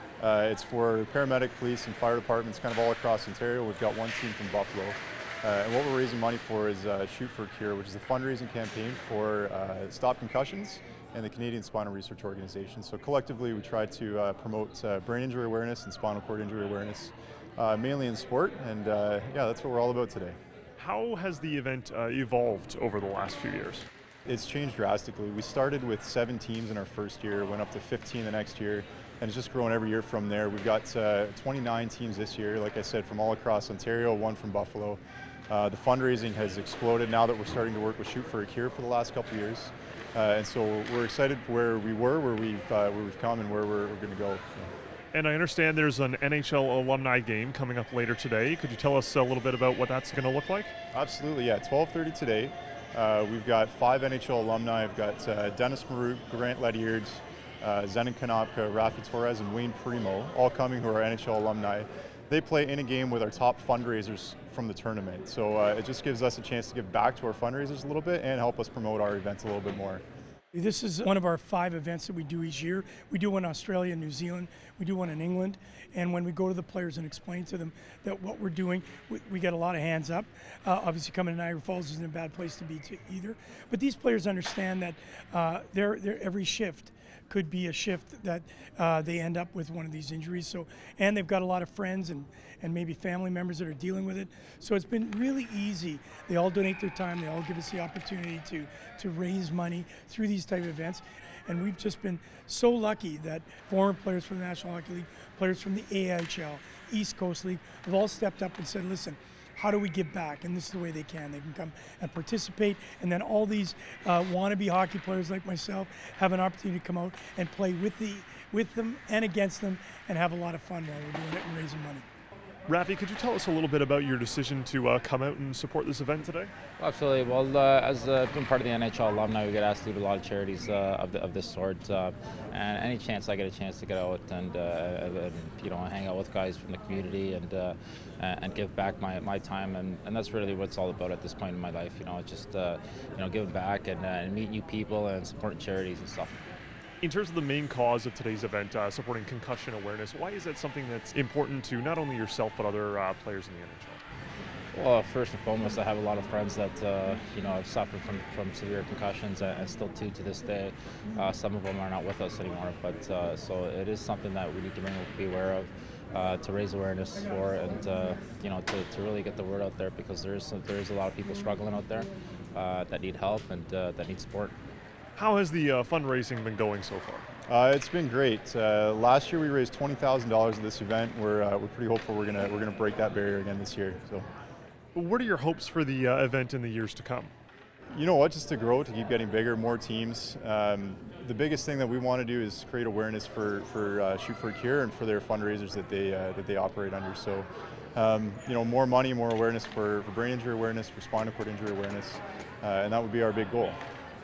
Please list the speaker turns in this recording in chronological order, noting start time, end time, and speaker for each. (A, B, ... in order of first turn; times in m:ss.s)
0:00.2-0:20.4 A
0:20.8-0:23.9 B
0:24.3-0:44.7 A
0:45.1-0:50.7 B
0:50.9-1:10.0 A
1:10.5-2:02.0 C
2:02.7-2:06.5 B
2:06.8-2:26.4 D
2:27.0-2:34.0 B
2:34.7-2:54.6 D
2:55.2-2:57.3 B
2:57.5-3:04.3 A
3:05.0-3:07.3 B
3:07.9-3:23.8 A